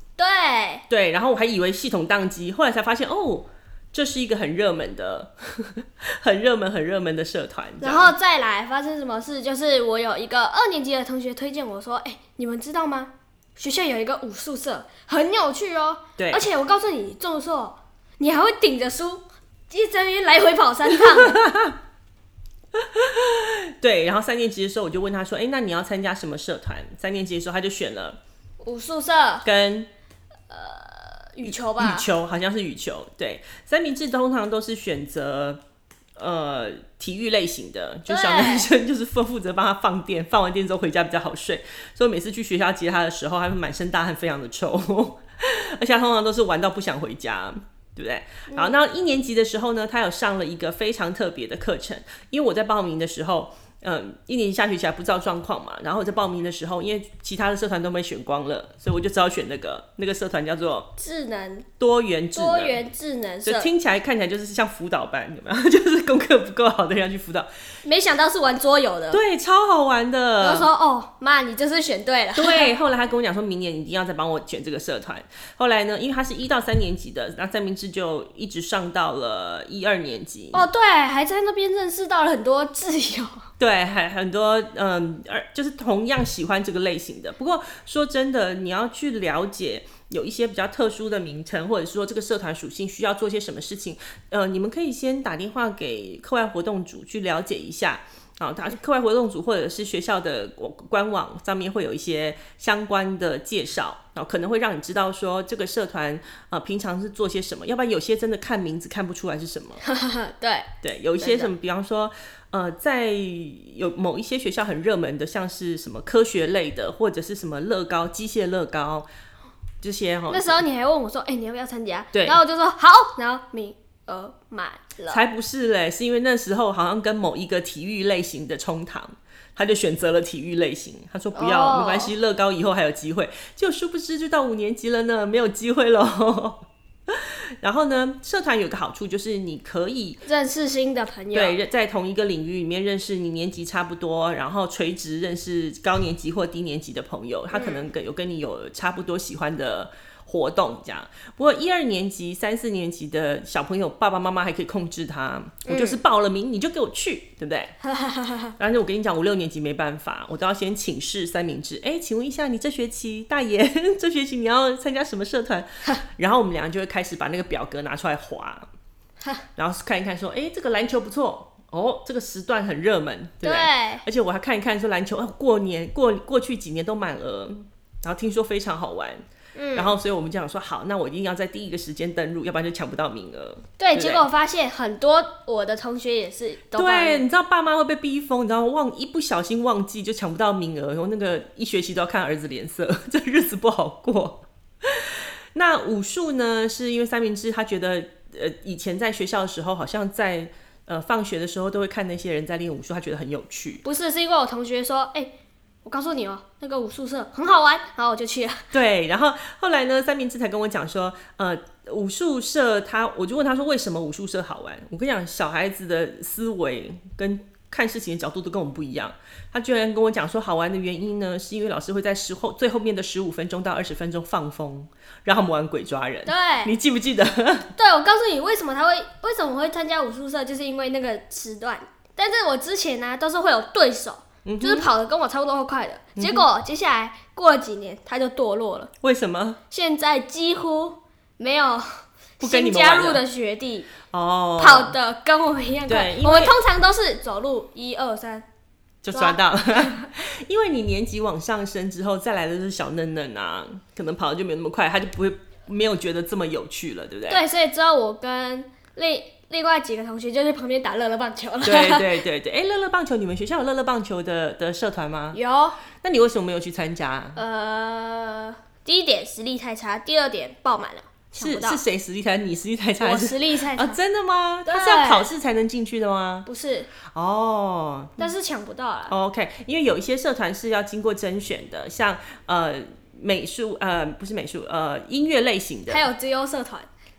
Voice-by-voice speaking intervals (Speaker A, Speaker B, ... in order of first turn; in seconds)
Speaker A: 0.2-0.8, 7.8-21.4, 28.6-29.5, 30.5-32.1, 38.1-38.7, 48.5-48.8, 61.0-61.7, 62.4-63.7, 67.8-69.2, 70.4-72.7, 80.5-83.5, 109.8-111.5, 120.3-125.2, 131.3-132.1, 140.2-141.6, 147.5-147.8, 155.7-156.0, 157.8-158.5, 173.4-174.1, 179.6-180.0, 183.8-187.2, 203.8-205.3, 205.8-208.7, 226.3-226.7, 227.8-238.9, 239.7-243.9, 244.6-248.5, 249.1-250.1, 257.3-262.2, 265.3-265.8, 267.4-271.8, 273.0-274.0, 274.7-275.3, 276.5-276.9, 278.2-279.2, 285.9-286.9
Speaker B: 0.9-8.1, 16.2-16.4, 21.0-21.8, 22.7-28.2, 29.4-29.9, 31.4-35.6, 36.2-60.9, 61.8-62.8, 63.4-67.5, 69.1-70.7, 72.3-80.7, 83.6-109.8, 110.8-119.1, 119.8-120.6, 122.1-122.4, 125.1-140.2, 141.3-157.7, 158.6-168.7, 169.6-184.3, 186.8-203.8, 208.7-227.7, 234.4-234.9, 236.2-236.5, 239.0-239.6, 242.4-243.2, 244.1-244.9, 245.9-246.6, 249.0-257.4, 261.6-265.4, 265.9-267.4, 271.4-276.5, 277.1-278.3, 279.1-286.0